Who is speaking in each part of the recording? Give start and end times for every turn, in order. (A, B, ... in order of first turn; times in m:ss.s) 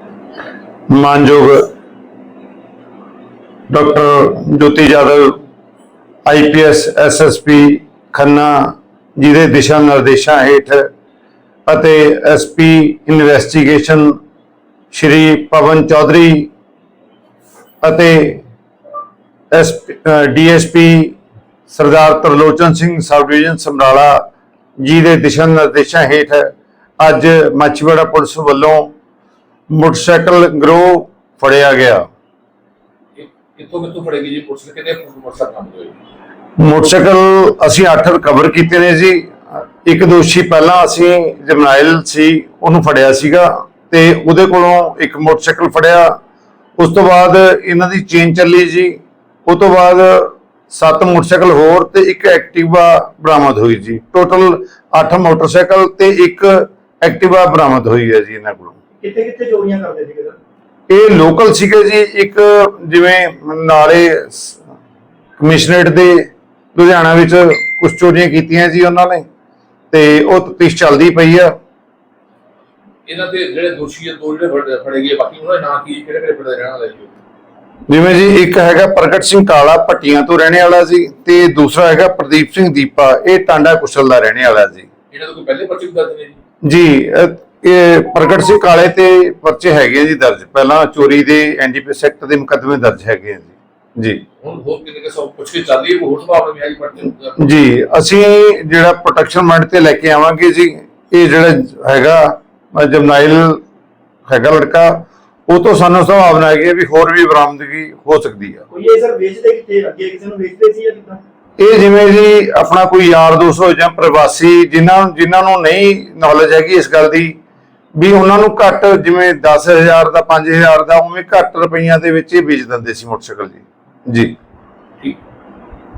0:00.9-0:01.7 A
0:03.7-0:05.4 A
0:06.2-0:10.9 A
0:11.7-0:14.2 A
0:14.9-0:16.5 A
0:17.8-0:18.4 A
0:19.5-0:21.2 A
0:21.7-0:28.9 A
0:29.7-0:32.1 A
0:33.2-0:35.9 B
0:36.6-0:46.2 A
0:46.8-0:58.8 A
0:59.0-1:00.4 C
1:00.9-1:04.6 A
1:05.4-1:09.2 A
1:09.9-1:11.5 A
1:13.0-1:17.2 B
1:17.9-1:24.9 A
1:25.1-1:26.4 B
1:26.6-1:34.2 A
1:34.4-1:37.4 B
1:37.4-1:43.6 A
1:44.3-1:48.6 A
1:48.7-1:51.2 C
1:51.6-1:57.4 A
1:58.0-2:04.3 A